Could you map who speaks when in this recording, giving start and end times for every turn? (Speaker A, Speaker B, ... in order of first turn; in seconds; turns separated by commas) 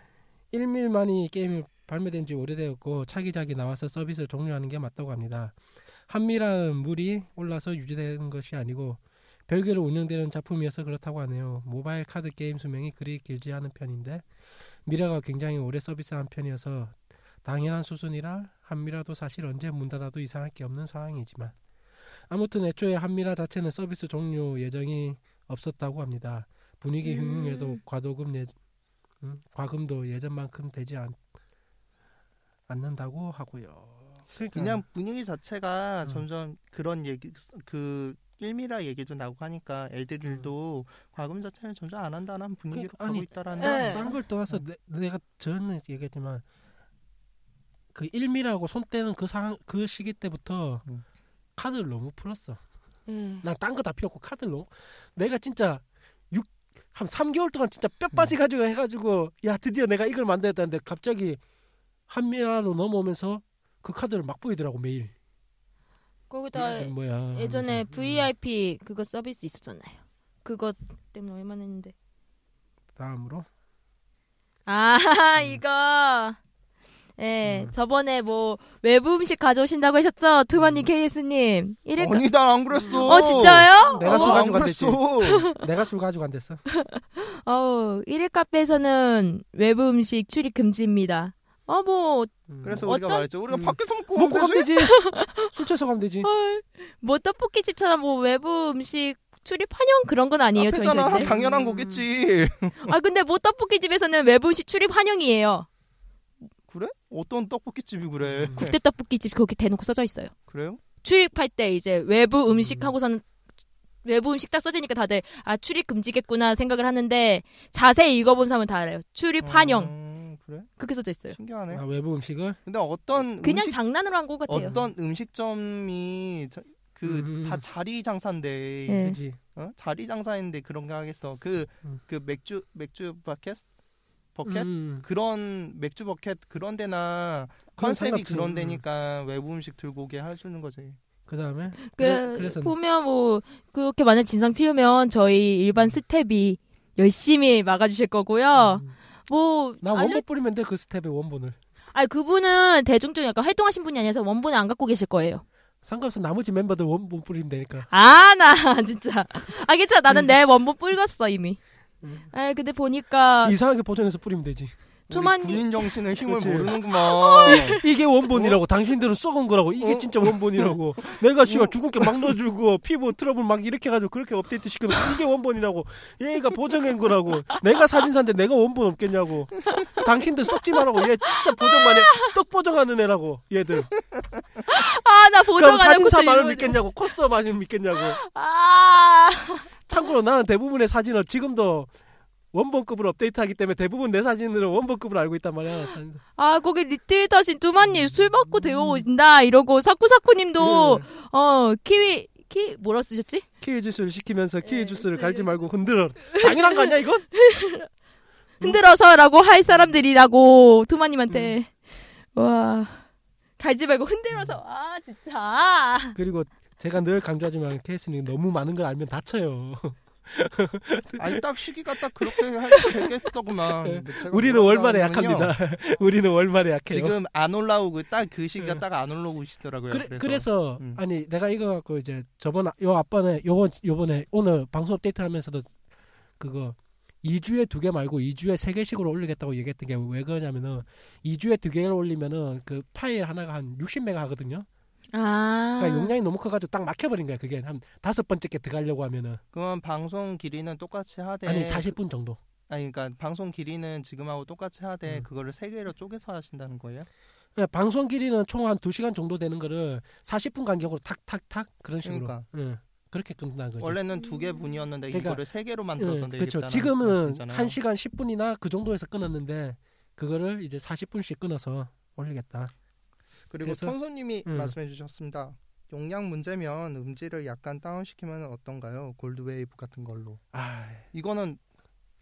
Speaker A: 0.5-14.3, Speaker A: 14.8-21.6, Speaker A: 22.3-28.5, Speaker B: 27.0-27.8, Speaker A: 29.2-31.2, Speaker A: 32.7-34.8, Speaker C: 34.5-44.6, Speaker A: 42.7-46.4, Speaker B: 43.5-44.2, Speaker A: 47.9-50.8, Speaker A: 51.6-52.6, Speaker B: 53.1-53.5, Speaker A: 53.4-61.4, Speaker A: 62.1-65.1, Speaker B: 66.3-71.9, Speaker A: 66.5-68.3, Speaker A: 73.0-73.5, Speaker B: 74.7-76.4, Speaker B: 77.2-82.2, Speaker A: 77.5-77.7, Speaker C: 82.0-85.5, Speaker A: 82.7-86.6, Speaker B: 83.1-84.4, Speaker B: 85.3-85.6, Speaker B: 86.7-93.3, Speaker A: 92.5-92.9, Speaker C: 92.6-94.7, Speaker A: 93.5-96.3, Speaker B: 94.8-95.5, Speaker B: 96.2-101.3, Speaker C: 100.6-103.0, Speaker A: 101.0-102.0, Speaker B: 102.8-105.7, Speaker C: 106.7-108.8, Speaker A: 108.2-108.6, Speaker B: 108.6-110.3, Speaker C: 110.5-110.8, Speaker B: 111.0-113.2, Speaker A: 112.6-112.9, Speaker B: 114.0-119.9, Speaker C: 119.4-120.7, Speaker B: 120.8-121.4, Speaker C: 121.3-121.8, Speaker A: 121.7-122.6, Speaker C: 122.7-123.8, Speaker B: 123.4-124.8, Speaker C: 124.5-133.7, Speaker A: 124.5-124.9, Speaker A: 127.0-127.6, Speaker B: 128.9-129.2, Speaker A: 129.1-129.4, Speaker C: 134.3-141.0, Speaker A: 134.5-135.1, Speaker A: 137.8-138.8, Speaker A: 141.3-142.8, Speaker B: 141.9-150.2, Speaker A: 148.5-148.9, Speaker A: 149.8-151.6, Speaker B: 151.9-155.4, Speaker A: 155.8-157.9, Speaker B: 157.9-161.6, Speaker A: 162.0-162.3, Speaker B: 162.3-163.6, Speaker A: 163.4-164.7, Speaker B: 165.1-165.9, Speaker C: 165.1-168.6, Speaker A: 166.3-166.8, Speaker B: 167.1-167.8, Speaker A: 167.4-183.9, Speaker C: 169.8-172.3, Speaker B: 181.3-182.3, Speaker B: 184.7-186.9, Speaker A: 185.5-188.2, Speaker B: 188.0-189.7, Speaker A: 189.9-191.9, Speaker A: 192.5-196.2, Speaker B: 196.4-203.4, Speaker A: 198.8-199.1, Speaker A: 200.6-201.1, Speaker A: 203.6-207.3, Speaker B: 204.6-205.5, Speaker B: 206.3-207.9, Speaker B: 208.6-211.7, Speaker A: 211.3-211.6, Speaker B: 212.3-213.0, Speaker B: 213.6-216.2, Speaker A: 216.2-221.4, Speaker C: 221.2-225.6, Speaker A: 222.2-223.0, Speaker A: 223.8-227.2, Speaker C: 226.9-231.0, Speaker A: 229.9-235.7, Speaker A: 236.4-244.7, Speaker B: 245.1-246.1, Speaker A: 245.8-249.4, Speaker C: 249.5-251.9, Speaker A: 251.4-252.4, Speaker C: 252.7-257.1, Speaker A: 257.6-264.0, Speaker C: 262.0-262.5, Speaker C: 263.8-267.8, Speaker B: 264.1-264.7, Speaker A: 265.1-265.4, Speaker A: 266.0-272.7, Speaker C: 273.5-280.4, Speaker A: 273.6-273.9, Speaker A: 274.5-274.7, Speaker A: 280.5-281.1, Speaker C: 281.1-281.6